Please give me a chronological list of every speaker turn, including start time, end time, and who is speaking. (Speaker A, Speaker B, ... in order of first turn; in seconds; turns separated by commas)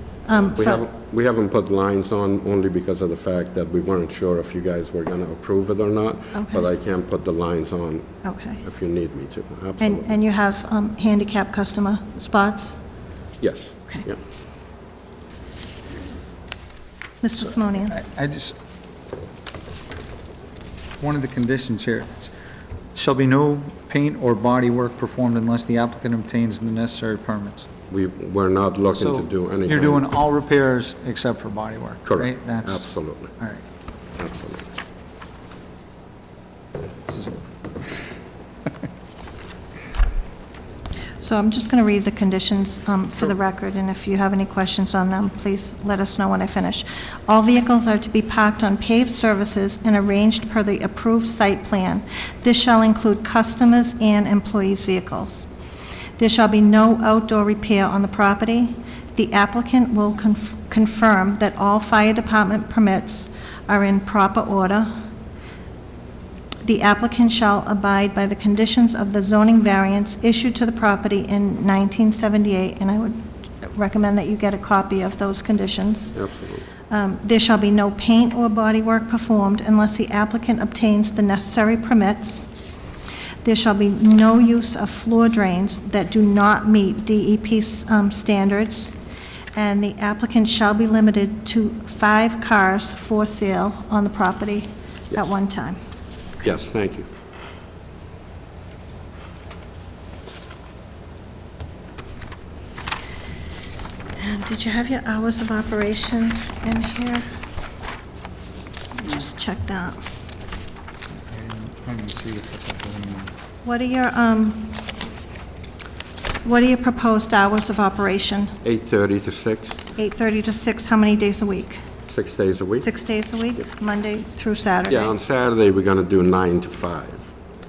Speaker A: 0.2-0.9, Speaker B: 0.5-10.1, Speaker A: 6.3-6.7, Speaker A: 8.2-8.6, Speaker A: 9.8-12.8, Speaker B: 13.4-14.2, Speaker A: 17.2-18.0, Speaker C: 17.4-18.6, Speaker C: 21.0-22.3, Speaker C: 22.9-27.7, Speaker B: 27.9-30.1, Speaker C: 28.9-33.6, Speaker B: 32.0-33.3, Speaker B: 34.2-34.7, Speaker C: 37.0-37.9, Speaker A: 41.2-55.5, Speaker A: 56.2-65.0, Speaker A: 66.6-76.2, Speaker B: 76.1-76.7, Speaker A: 76.9-82.5, Speaker A: 83.4-88.9, Speaker A: 89.5-95.8, Speaker B: 96.4-97.1, Speaker A: 104.2-107.3, Speaker A: 108.9-110.0, Speaker C: 111.3-113.3, Speaker A: 113.6-114.9, Speaker A: 116.4-118.5, Speaker B: 118.6-119.8, Speaker A: 120.0-121.8, Speaker B: 122.0-122.9, Speaker A: 122.8-125.1, Speaker B: 124.9-127.3